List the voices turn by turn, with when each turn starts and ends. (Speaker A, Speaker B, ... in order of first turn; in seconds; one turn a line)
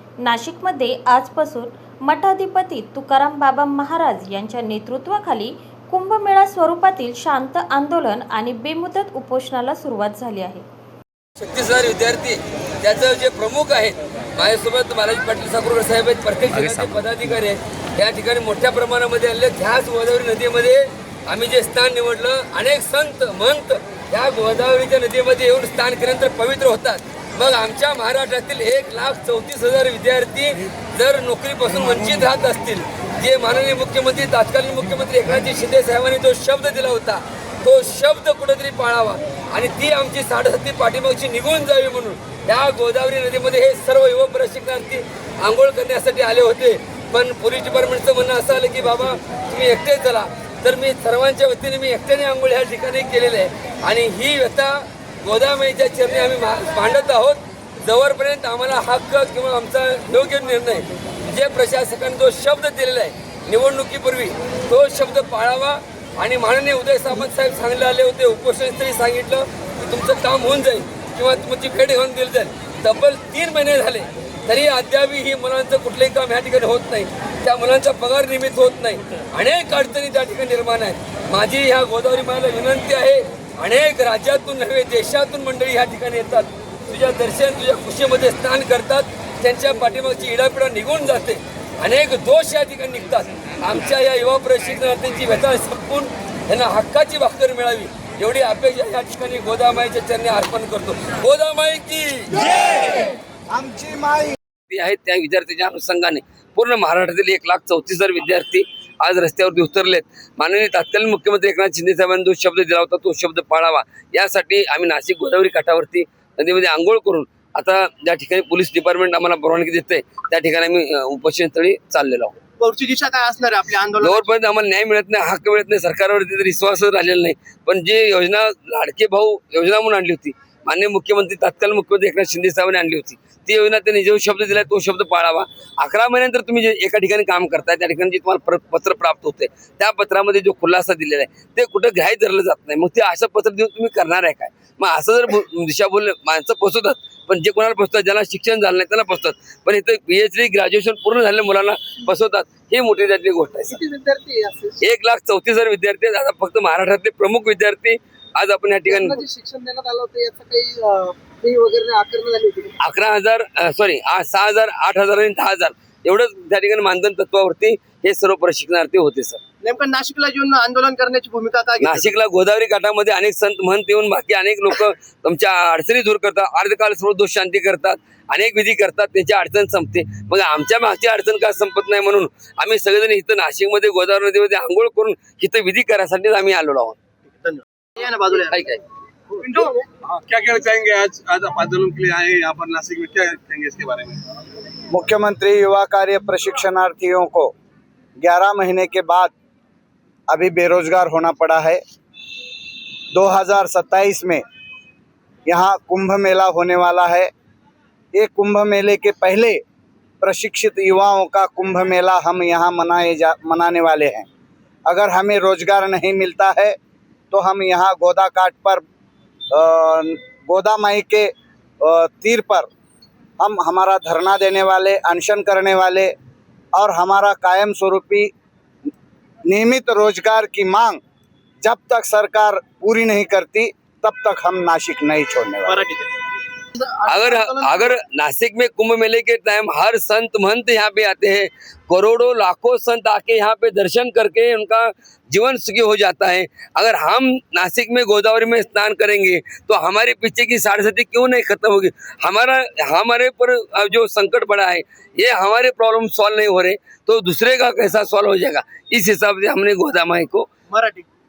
Speaker A: 0.2-10.6
Speaker B: 11.4-102.5
Speaker C: 102.5-104.4
Speaker B: 104.7-122.4
Speaker D: 122.6-124.3
Speaker B: 124.0-153.8
Speaker D: 153.7-154.8
Speaker B: 154.8-159.2
Speaker D: 158.9-162.8
Speaker B: 162.8-169.4
Speaker D: 169.6-172.1
Speaker B: 171.8-187.0
Speaker D: 187.3-188.6
Speaker B: 188.5-188.8
Speaker E: 189.4-194.3
Speaker C: 194.9-197.5
Speaker C: 198.2-199.3
Speaker C: 200.3-201.8
Speaker C: 203.1-204.4
Speaker C: 205.5-207.3
Speaker C: 208.1-209.6
Speaker C: 210.2-214.3
Speaker C: 214.9-216.7
Speaker C: 217.3-218.8
Speaker C: 219.5-222.7
Speaker C: 223.4-226.1
Speaker C: 226.7-228.3
Speaker C: 229.5-231.0
Speaker C: 231.6-235.8
Speaker D: 235.7-236.1
Speaker D: 236.7-237.9
Speaker B: 237.1-260.5
Speaker D: 260.7-261.1